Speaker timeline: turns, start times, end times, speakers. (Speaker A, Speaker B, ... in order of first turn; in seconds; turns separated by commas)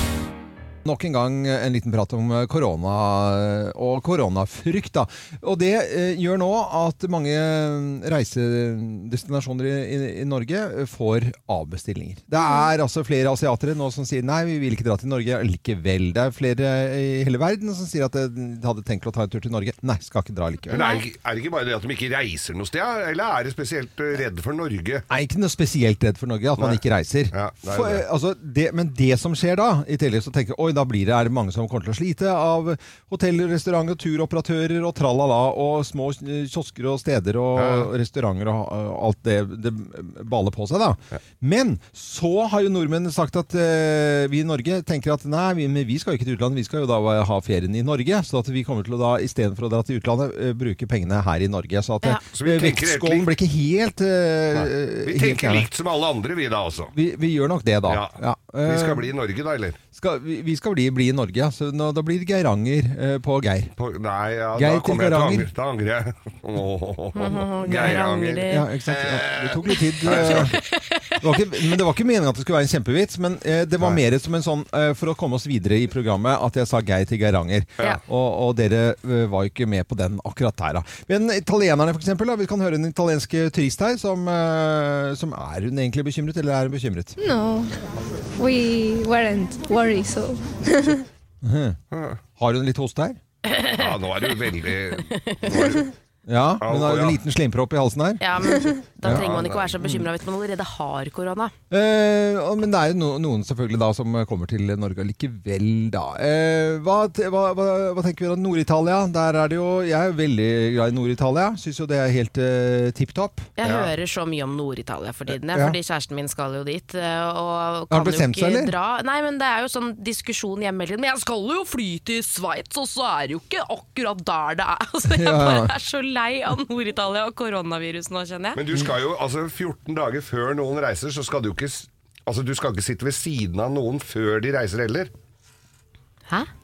Speaker A: 0.8-20.8, Speaker B: 20.7-25.0, Speaker C: 20.7-21.0, Speaker A: 25.1-55.7, Speaker B: 27.3-28.0, Speaker B: 37.5-37.9, Speaker B: 52.3-53.3, Speaker B: 54.5-56.9, Speaker A: 56.9-59.1, Speaker B: 57.9-59.8, Speaker A: 59.9-63.7, Speaker B: 63.8-70.6, Speaker A: 64.5-65.5, Speaker C: 67.1-68.7, Speaker A: 68.5-70.6, Speaker C: 70.1-71.2, Speaker A: 71.2-87.2, Speaker D: 87.2-87.7, Speaker D: 88.4-91.0, Speaker A: 91.4-91.8, Speaker B: 91.9-92.2, Speaker A: 92.4-93.2, Speaker C: 93.5-93.8, Speaker B: 93.7-95.9, Speaker C: 95.0-95.8, Speaker A: 96.3-99.3, Speaker B: 96.6-97.2, Speaker C: 98.2-101.5, Speaker B: 99.0-99.8, Speaker A: 101.7-113.5, Speaker C: 113.6-128.6, Speaker B: 113.6-113.9, Speaker A: 115.5-115.8, Speaker A: 117.9-118.7, Speaker A: 125.1-125.7, Speaker B: 128.6-135.1